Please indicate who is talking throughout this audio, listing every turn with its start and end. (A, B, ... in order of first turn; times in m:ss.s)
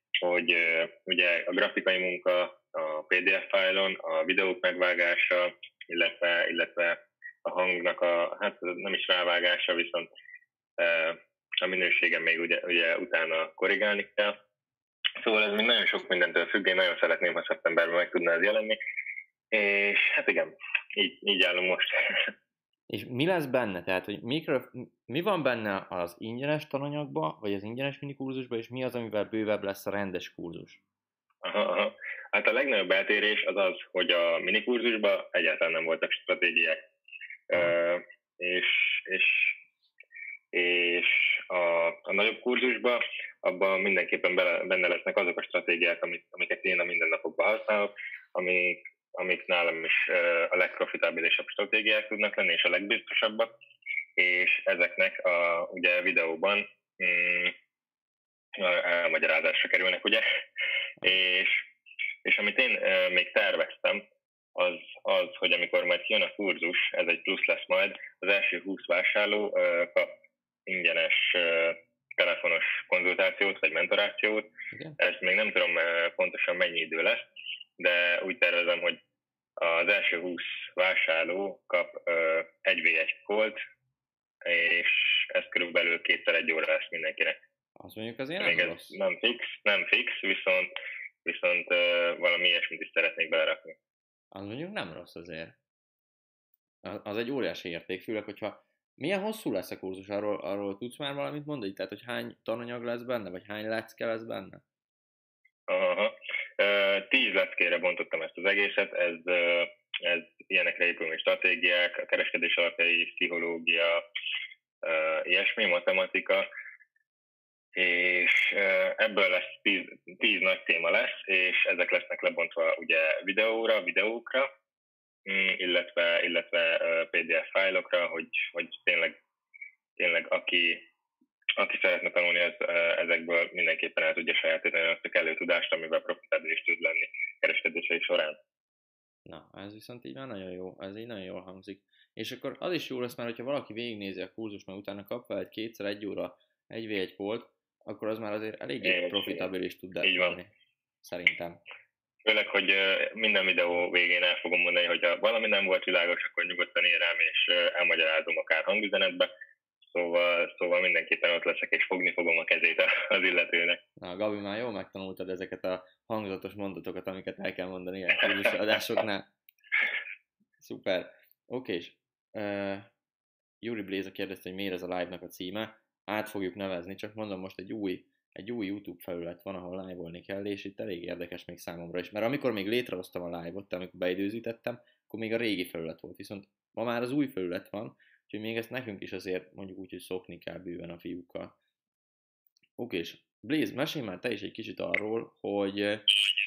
0:00.2-0:10.1 A
0:10.8-0:14.4 A
0:15.2-0:18.8 A
0:19.5-0:22.3 A
0:22.9-0:30.8 B
0:31.4-0:36.8 A
0:37.5-0:39.6 A
0:40.5-0:53.5 A
0:54.2-0:57.5 A
0:58.6-1:00.2 A
1:01.0-1:01.7 A
1:02.2-1:04.0 A
1:04.6-1:10.1 A
1:10.7-1:17.2 A
1:17.8-1:19.0 A
1:19.6-1:23.6 A
1:24.4-1:27.4 A
1:27.8-1:29.0 B
1:28.4-1:30.7 A
1:31.2-1:33.8 A
1:34.3-1:35.6 B
1:36.8-1:44.6 B
1:45.7-1:54.0 A
1:54.8-1:56.4 A
1:57.8-2:04.5 A
2:05.3-2:09.2 A
2:10.0-2:10.8 A
2:11.6-2:18.4 A
2:19.3-2:30.5 B
2:28.8-2:29.5 A
2:30.0-2:30.4 A
2:31.0-2:31.6 B
2:32.2-2:39.3 A
2:39.9-2:43.8 A
2:44.0-2:49.3 B
2:50.6-2:52.9 B
2:53.6-3:11.6 B
3:12.8-3:16.0 B